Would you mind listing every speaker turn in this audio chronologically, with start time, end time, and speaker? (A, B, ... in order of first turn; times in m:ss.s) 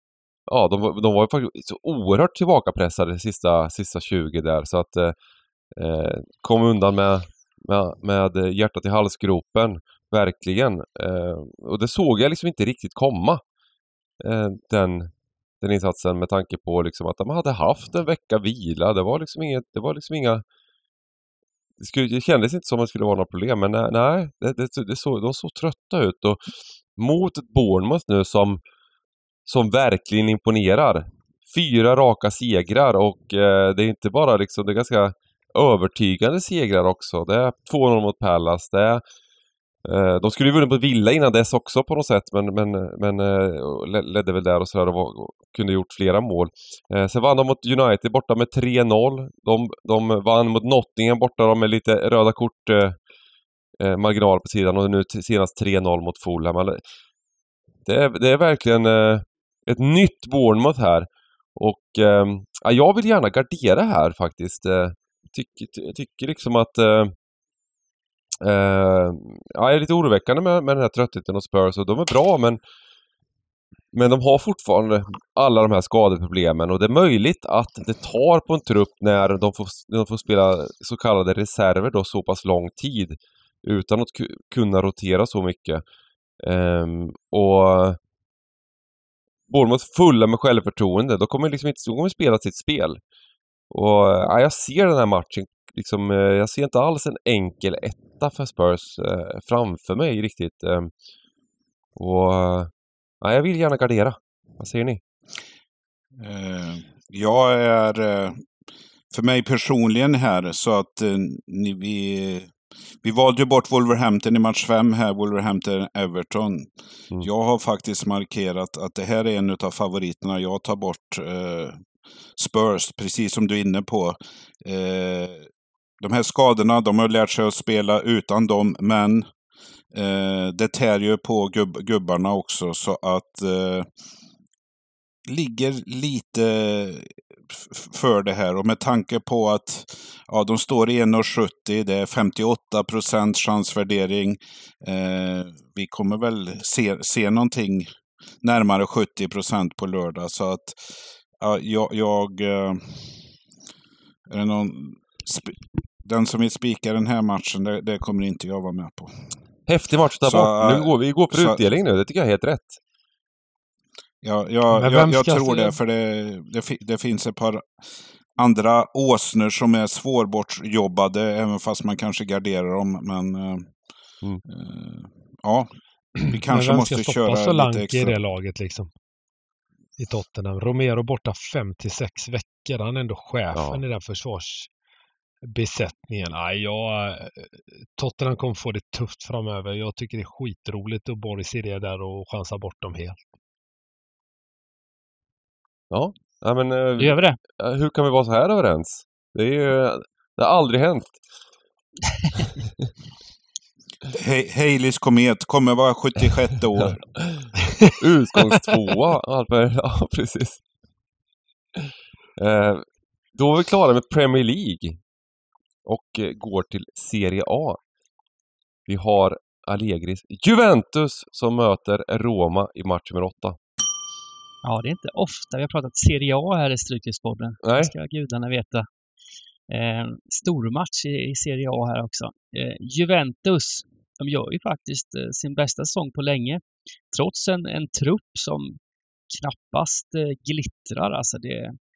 0:00.5-0:05.2 A
0:05.8-0:13.4 A
0:14.2-0:20.4 A
0:21.8-0:28.6 A
0:29.5-0:39.0 A
0:39.8-0:53.0 A
0:53.8-0:56.8 A
0:57.9-1:07.2 A
1:08.4-1:12.6 A
1:13.9-1:25.8 A
1:26.4-1:28.0 A
1:29.5-1:33.0 A
1:33.7-1:40.9 A
1:42.0-1:42.7 A
1:43.2-1:45.0 A
1:46.2-1:48.4 B
1:49.1-1:52.5 B
1:53.0-2:01.8 B
2:02.4-2:05.5 B
2:06.0-2:09.3 B
2:09.9-2:13.9 B
2:15.3-2:27.9 B
2:28.4-2:33.0 B
2:34.3-2:39.1 B
2:39.7-2:42.8 A
2:40.2-2:41.6 B
2:44.2-2:47.7 B
2:44.7-2:45.8 C
2:48.4-2:53.7 B
2:54.5-2:58.2 B
2:56.5-2:58.9 C
3:00.0-3:04.7 C
3:03.5-3:03.8 A
3:05.5-3:13.2 C
3:15.9-3:21.2 A
3:17.0-3:17.4 D
3:24.1-3:27.1 B
3:27.2-3:30.6 A
3:31.8-3:32.8 A
3:33.4-3:35.0 A
3:35.8-3:37.8 A
3:38.9-3:43.6 A
3:44.6-3:48.9 D
3:47.6-3:47.9 A
3:49.7-3:58.8 D
3:59.3-4:01.8 D